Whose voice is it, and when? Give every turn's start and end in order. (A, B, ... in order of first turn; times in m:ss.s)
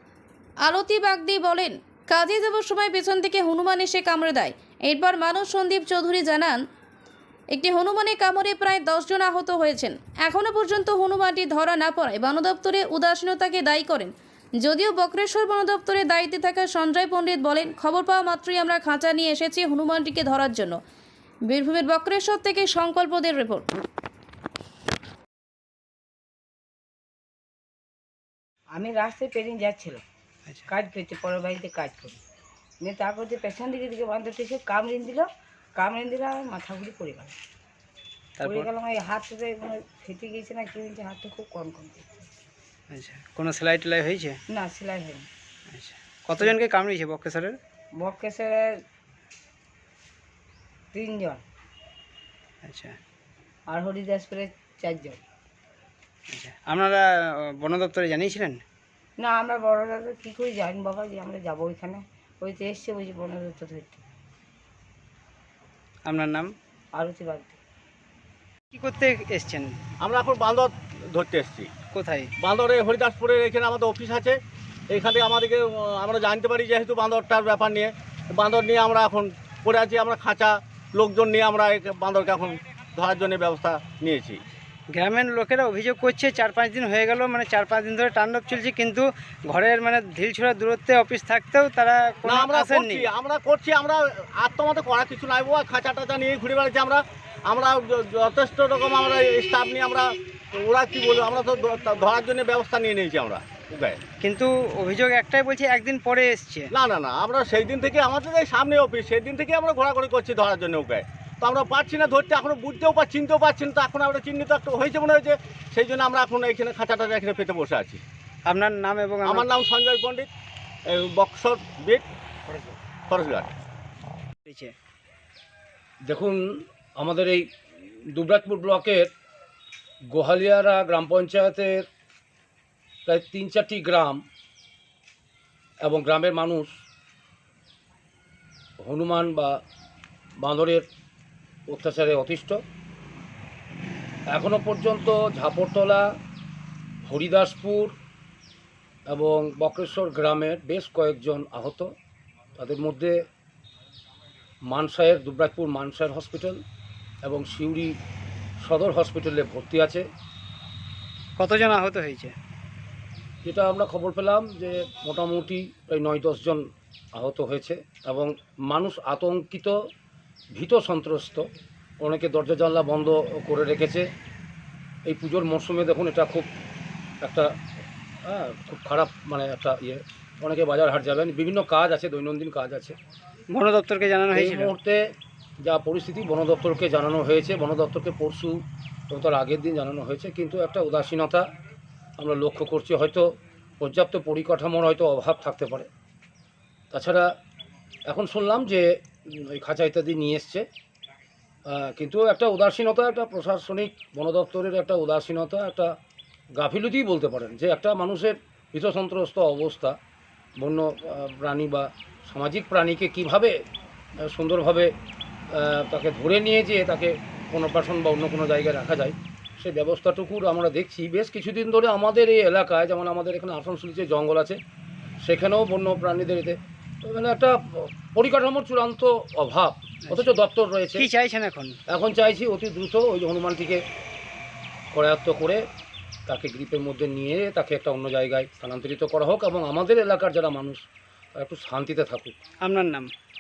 0:00.6-0:06.6 A
0:07.5-0:20.8 A
0:21.5-0:23.7 A
0:28.7-0:30.0 B
0:30.7-0:32.2 B
0:32.8-0:37.4 B
0:38.4-0:38.7 C
0:38.4-0:42.3 B
0:42.9-0:44.4 C
0:44.5-0:45.3 B
0:45.7-0:47.6 C
0:48.0-0:48.8 B
0:50.9-0:51.4 B
0:52.6-0:53.0 C
0:53.7-0:55.2 B
0:56.3-0:58.6 C
0:59.2-1:04.0 B
1:06.0-1:06.5 C
1:06.9-1:07.6 B
1:08.7-1:09.8 C
1:10.0-1:11.8 D
1:11.9-1:12.3 C
1:12.4-1:14.4 D
1:14.9-1:24.4 D
1:24.9-1:33.1 C
1:32.3-1:44.0 D
1:44.2-1:46.7 C
1:46.7-1:58.0 D
1:58.5-1:59.5 C
1:59.2-2:00.3 D
2:00.9-2:02.1 D
2:03.1-2:03.5 D
2:04.5-2:04.7 C
2:06.0-2:06.4 E
2:07.0-2:07.5 E
2:08.1-2:09.1 E
2:10.1-2:11.9 E
2:13.1-2:14.2 E
2:15.8-2:16.7 E
2:18.8-2:19.6 E
2:20.4-2:20.9 E
2:21.7-2:22.6 E
2:24.3-2:26.1 E
2:27.1-2:27.9 E
2:29.1-2:31.9 E
2:32.6-2:33.2 E
2:34.7-2:36.6 E
2:37.2-2:38.0 E
2:38.6-2:40.0 E
2:41.4-2:42.4 C
2:43.4-2:46.6 E
2:47.2-2:49.7 E
2:50.5-2:51.5 E
2:52.0-2:54.1 E
2:55.0-2:56.5 E
2:57.2-2:57.5 E
2:58.2-3:03.0 E
3:03.5-3:04.7 C
3:04.3-3:05.1 E
3:05.6-3:08.6 E
3:09.1-3:11.4 E
3:12.2-3:13.3 E
3:13.8-3:15.9 E
3:16.9-3:17.3 E
3:18.1-3:20.6 E
3:21.7-3:26.0 E
3:26.6-3:30.0 E
3:30.6-3:33.6 E
3:34.2-3:34.9 E
3:35.5-3:44.6 E
3:45.2-3:51.1 E
3:50.1-3:50.3 C
3:51.0-3:51.8 C
3:51.9-3:53.8 E
3:54.9-3:55.6 E
3:56.3-4:00.8 E
4:01.4-4:02.4 E
4:02.6-4:03.1 C